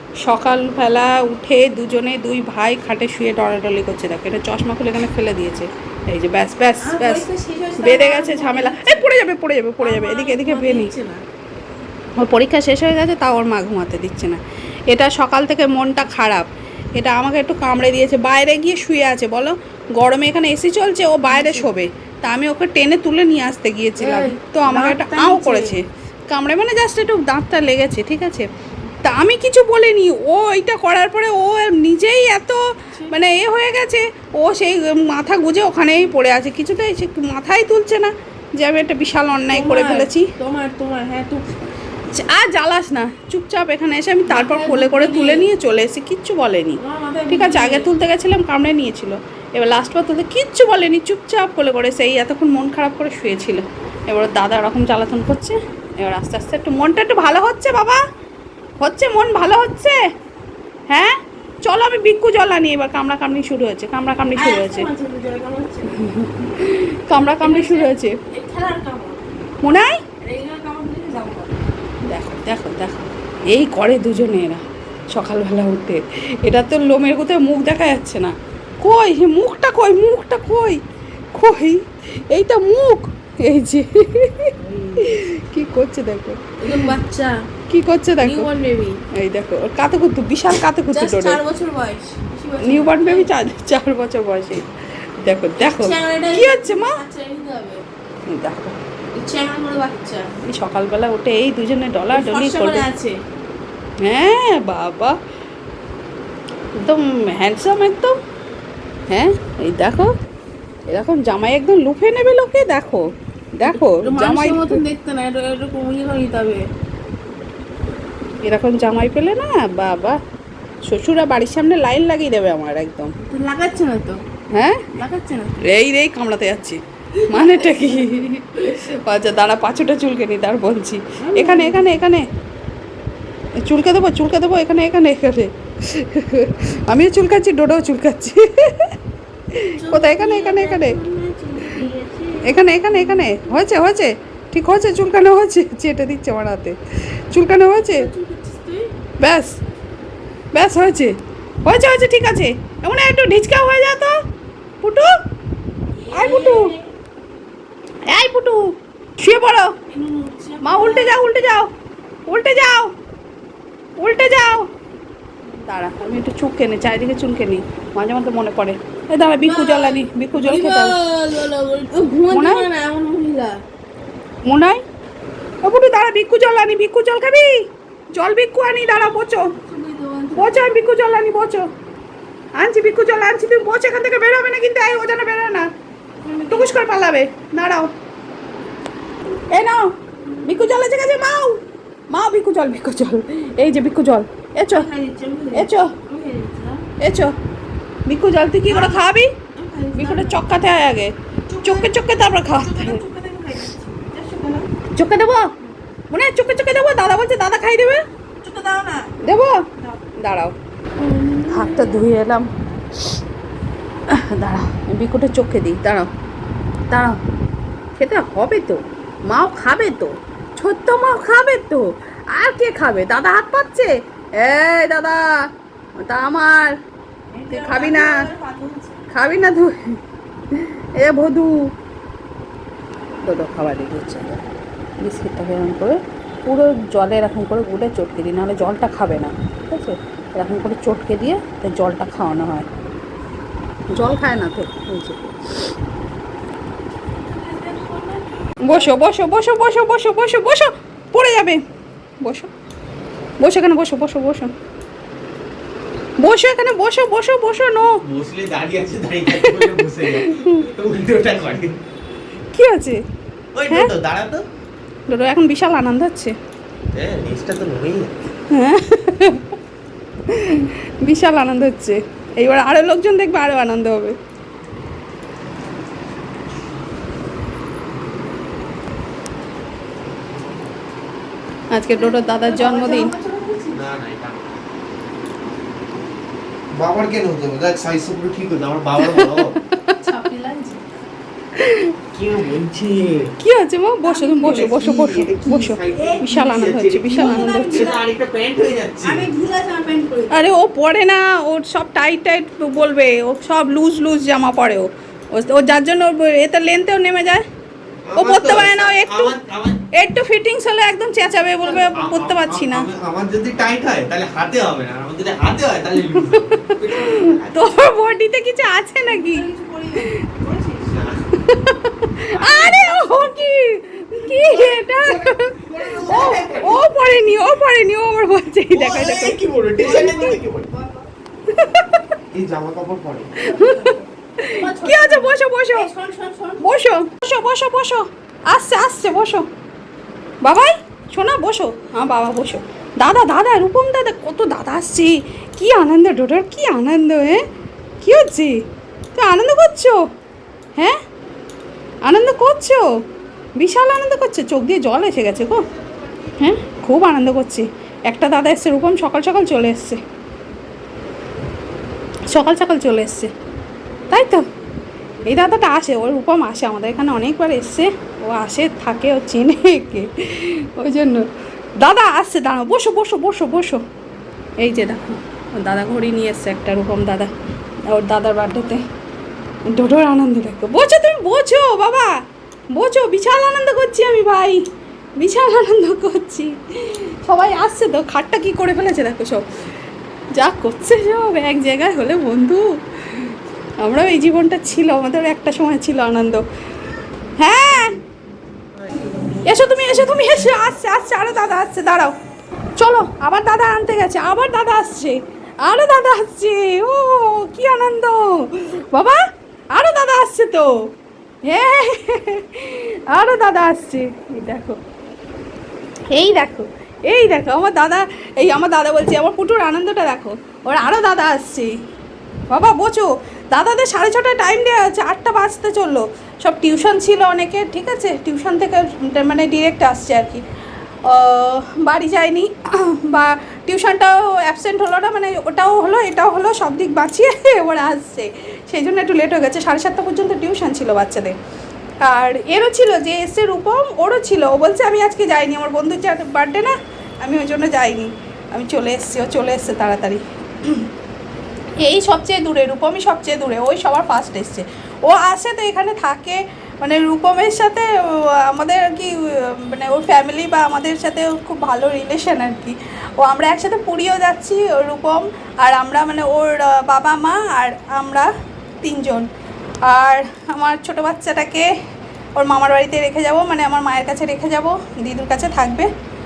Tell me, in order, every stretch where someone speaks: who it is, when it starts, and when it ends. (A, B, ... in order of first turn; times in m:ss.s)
0:00.2-0:07.3 A
0:06.8-0:09.1 B
0:07.8-0:10.9 A
0:09.8-0:11.2 B
0:12.2-0:28.5 A
0:21.3-0:21.7 B
0:24.0-0:25.7 B
0:29.0-0:40.3 A
0:39.5-0:41.5 B
0:42.1-0:58.0 A
0:44.3-0:45.5 B
0:46.8-0:47.9 B
0:58.8-1:00.0 A
1:00.9-1:04.9 A
1:04.4-1:06.1 B
1:06.0-1:08.2 A
1:07.4-1:09.2 B
1:09.6-1:10.0 A
1:10.2-1:11.5 B
1:12.1-1:20.8 A
1:21.3-1:26.9 A
1:24.6-1:25.2 B
1:26.6-1:27.3 B
1:27.7-1:28.5 A
1:28.2-1:29.0 B
1:29.1-1:31.4 A
1:30.9-1:33.3 B
1:32.6-1:34.7 A
1:35.2-1:37.0 A
1:35.6-1:37.8 B
1:38.3-1:38.8 A
1:39.2-1:40.3 B
1:40.4-1:42.8 A
1:42.1-1:43.2 B
1:44.0-1:45.2 A
1:46.8-1:48.1 A
1:49.1-1:50.1 A
1:50.9-1:53.0 A
1:53.6-1:54.8 A
1:53.7-1:56.6 B
1:58.4-2:00.2 A
2:00.9-2:03.1 A
2:03.2-2:04.2 B
2:04.5-2:04.9 A
2:04.9-2:05.6 B
2:05.6-2:12.3 A
2:07.2-2:08.1 B
2:11.2-2:12.0 B
2:13.6-2:18.9 A
2:19.5-2:21.0 A
2:19.7-2:23.6 B
2:22.4-2:28.1 A
2:27.8-2:28.9 B
2:29.2-2:29.5 A
2:30.5-2:31.1 A
2:31.6-2:34.2 A
2:34.8-2:35.1 A
2:36.0-2:36.9 B
2:36.1-2:36.7 A
2:38.1-2:39.8 A
2:39.9-2:41.2 B
2:40.6-2:41.7 A
2:42.3-2:42.9 A
2:44.0-2:44.7 A
2:45.6-2:51.0 A
2:49.4-2:53.6 B
2:52.3-2:52.7 A
2:54.5-2:54.8 A
2:55.6-2:59.6 A
2:59.6-3:00.7 B
3:00.4-3:01.7 A
3:02.6-3:05.7 A
3:06.2-3:06.8 B
3:06.5-3:07.9 A
3:09.5-3:14.9 A
3:14.6-3:16.8 B
3:15.5-3:15.9 A
3:17.0-3:17.4 A
3:18.1-3:19.3 A
3:18.7-3:19.0 B
3:19.6-3:20.4 B
3:20.0-3:23.0 A
3:21.5-3:24.7 B
3:24.9-3:25.5 A
3:26.1-3:28.0 A
3:28.4-3:29.1 B
3:29.2-3:30.5 A
3:31.0-3:32.0 B
3:31.5-3:32.5 A
3:34.1-3:36.1 A
3:36.9-3:37.2 A
3:38.0-3:45.3 A
3:46.0-3:46.8 A
3:47.3-3:49.0 B
3:47.5-3:48.2 A
3:49.1-3:50.0 A
3:50.5-3:51.6 A
3:53.2-3:54.4 A
3:55.0-4:02.7 A
4:03.9-4:05.3 A
4:07.2-4:09.0 B
4:08.6-4:11.6 A
4:12.2-4:12.5 A
4:13.4-4:14.5 A
4:16.2-4:18.0 A
4:18.0-4:21.8 C
4:19.3-4:20.7 A
4:22.5-4:23.0 A
4:23.6-4:24.4 C
4:25.1-4:26.3 A
4:26.9-4:28.1 C
4:28.5-4:29.4 A
4:30.3-4:34.2 A
4:41.7-4:43.1 A
4:41.9-4:43.9 B
4:43.7-4:44.5 C
4:46.7-4:49.6 C
4:49.0-4:50.0 A
4:50.0-4:50.8 B
4:51.6-4:51.9 A
4:52.1-4:53.3 C
4:53.4-4:57.8 A
4:54.0-4:55.2 B
4:54.4-4:59.3 C
4:55.9-4:58.0 B
4:59.0-5:00.4 B
5:00.3-5:07.4 A
5:08.1-5:09.8 C
5:08.2-5:09.4 A
5:10.0-5:12.9 A
5:11.6-5:11.9 B
5:11.9-5:17.8 C
5:16.2-5:19.5 A
5:19.0-5:21.0 B
5:20.9-5:21.3 C
5:21.4-5:30.2 A
5:22.3-5:23.4 B
5:24.3-5:24.8 B
5:25.6-5:26.7 C
5:26.0-5:26.8 B
5:28.7-5:30.7 C
5:29.8-5:31.1 B
5:31.5-5:32.1 A
5:32.3-5:33.3 C
5:33.4-5:35.9 A
5:33.5-5:36.6 B
5:36.6-5:39.5 A
5:40.4-5:47.4 A
5:48.0-5:48.6 A
5:49.2-5:50.0 A
5:52.0-5:52.9 A
5:53.6-5:55.6 A
5:56.4-6:00.0 A
6:02.3-6:03.3 A
6:04.1-6:04.4 A
6:05.2-6:11.3 A
6:11.8-6:13.8 A
6:14.6-6:17.3 A
6:17.9-6:18.8 A
6:19.7-6:22.1 A
6:22.8-6:24.6 A
6:25.2-6:29.4 A
6:30.4-6:36.4 A
6:37.4-6:38.0 A
6:39.4-6:42.1 A
6:42.8-6:49.2 A
6:49.7-6:50.7 A
6:51.5-6:54.8 A
6:56.1-7:01.7 A
7:02.5-7:10.4 A
7:11.1-7:21.4 A
7:22.0-7:30.9 A
7:31.8-7:48.3 A
7:48.8-7:49.3 A
7:49.8-7:51.7 A
7:52.4-7:55.9 A